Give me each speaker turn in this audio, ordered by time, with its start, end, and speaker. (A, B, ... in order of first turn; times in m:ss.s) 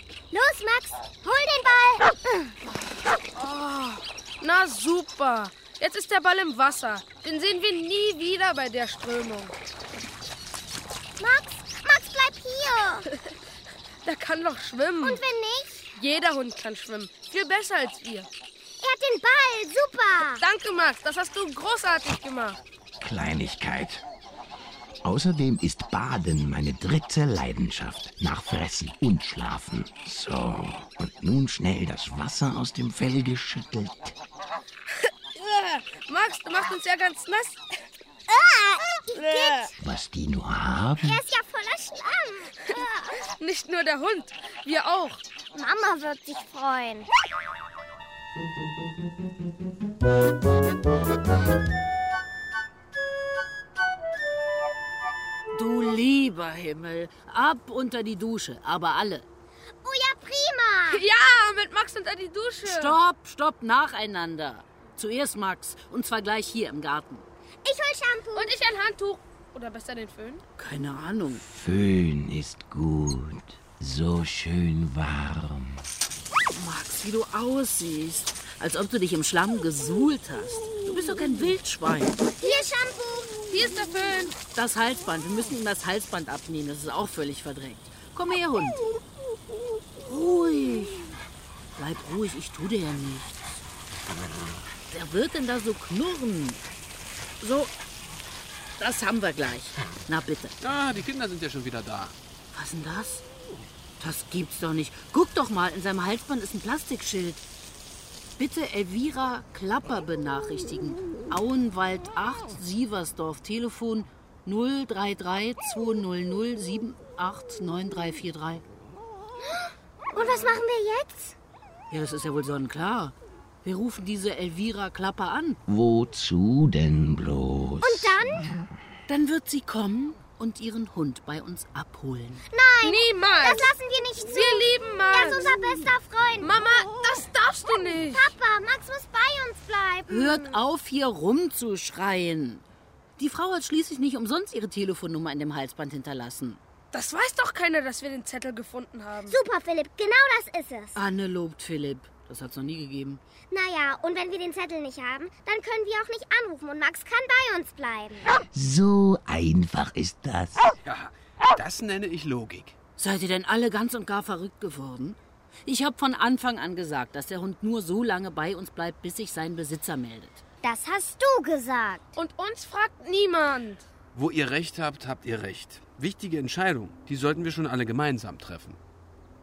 0:00.3-0:02.6 A
0:03.4-0:09.6 B
0:11.2-0:13.1 A
0:14.0-0:15.2 B
0:15.0-0:15.8 A
0:16.0-0:18.3 B
0:18.8-0:20.4 A
0:20.4-0:22.6 B
0:23.0-0:24.0 C
0:25.0-0:34.2 C
0:35.4-0:37.6 B
0:38.3-0:39.7 A
0:39.1-0:39.7 B
0:39.8-0:41.2 C
0:41.0-0:43.2 A
0:43.2-0:45.2 B
0:45.5-0:47.1 A
0:55.5-0:59.3 D
0:59.8-1:01.0 A
1:00.9-1:03.0 B
1:02.6-1:07.2 D
1:07.6-1:08.5 A
1:08.4-1:10.4 B
1:10.6-1:11.4 D
1:11.3-1:15.8 C
1:16.5-1:22.2 D
1:22.4-1:23.5 A
1:23.5-1:24.4 B
1:24.6-1:28.8 D
1:30.0-1:31.2 D
1:31.8-1:33.6 D
1:34.1-1:34.6 E
1:34.9-1:36.6 D
1:37.4-1:37.7 D
1:38.8-1:40.6 D
1:40.6-1:42.2 E
1:42.5-1:43.2 D
1:44.0-1:47.4 D
1:48.4-1:58.6 D
1:59.5-2:01.4 A
2:01.9-2:05.6 D
2:05.7-2:08.5 C
2:07.8-2:08.5 A
2:09.1-2:12.4 D
2:12.5-2:16.5 A
2:12.8-2:15.6 B
2:16.4-2:18.3 B
2:18.1-2:20.6 A
2:20.1-2:22.6 D
2:23.2-2:26.6 D
2:26.9-2:29.4 B
2:29.3-2:31.0 A
2:31.0-2:33.2 D
2:33.5-2:38.3 A
2:38.5-2:40.7 C
2:40.8-2:42.8 E
2:43.0-2:50.4 D
2:50.6-2:52.1 A
2:52.2-2:53.8 B
2:54.2-2:58.8 E